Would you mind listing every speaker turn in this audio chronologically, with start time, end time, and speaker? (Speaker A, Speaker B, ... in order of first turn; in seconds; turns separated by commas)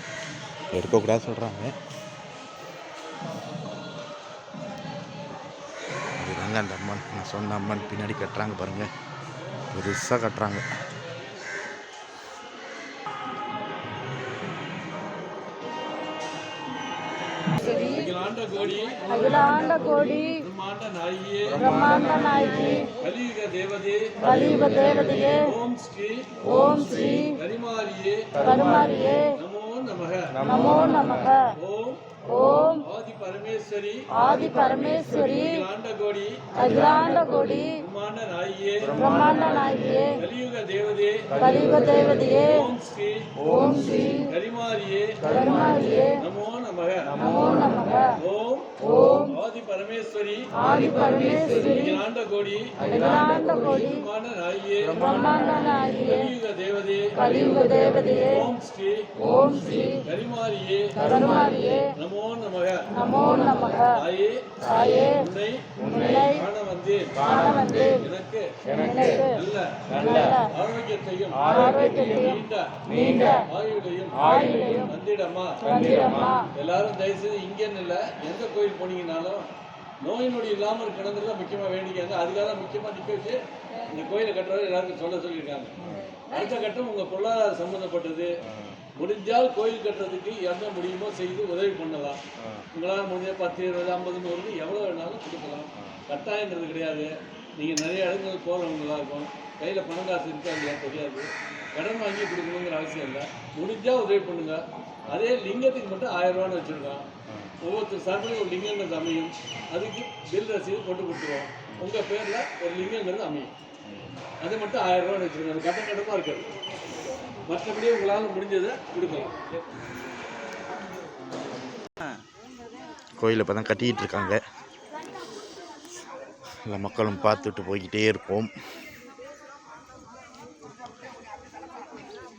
Speaker A: 0.7-1.8, Speaker A: 6.2-8.9, Speaker A: 9.7-10.7, Speaker B: 17.6-19.8, Speaker C: 19.1-20.4, Speaker B: 20.3-22.3, Speaker C: 21.6-22.9, Speaker B: 22.9-26.4, Speaker C: 24.2-25.5, Speaker C: 26.4-27.4, Speaker B: 27.3-28.8, Speaker C: 28.4-29.4, Speaker B: 29.3-30.8, Speaker C: 30.4-31.5, Speaker B: 31.6-32.0, Speaker C: 32.3-32.8, Speaker B: 32.6-43.4, Speaker C: 34.1-35.6, Speaker C: 36.5-37.8, Speaker C: 39.0-40.2, Speaker C: 41.4-42.6, Speaker C: 43.5-44.3, Speaker B: 44.2-45.5, Speaker C: 45.2-46.2, Speaker B: 46.1-47.2, Speaker C: 47.1-48.1, Speaker B: 48.2-59.2, Speaker C: 48.8-49.3, Speaker C: 50.6-52.0, Speaker C: 52.8-54.0, Speaker C: 54.9-56.3, Speaker C: 57.2-58.4, Speaker C: 59.2-60.0, Speaker B: 60.0-61.4, Speaker C: 61.0-61.9, Speaker B: 61.9-63.4, Speaker C: 62.9-64.0, Speaker B: 63.9-75.8, Speaker C: 64.6-65.2, Speaker C: 65.8-66.4, Speaker C: 67.2-68.0, Speaker C: 68.7-69.4, Speaker C: 69.9-70.5, Speaker C: 71.5-73.5, Speaker C: 74.2-74.9, Speaker C: 75.6-76.5, Speaker B: 76.5-79.5, Speaker B: 80.0-85.8, Speaker B: 86.3-88.4, Speaker B: 89.0-92.2, Speaker B: 92.7-107.1, Speaker B: 107.6-113.5, Speaker B: 114.4-116.5, Speaker B: 117.5-119.3, Speaker A: 123.2-124.4, Speaker A: 126.6-128.5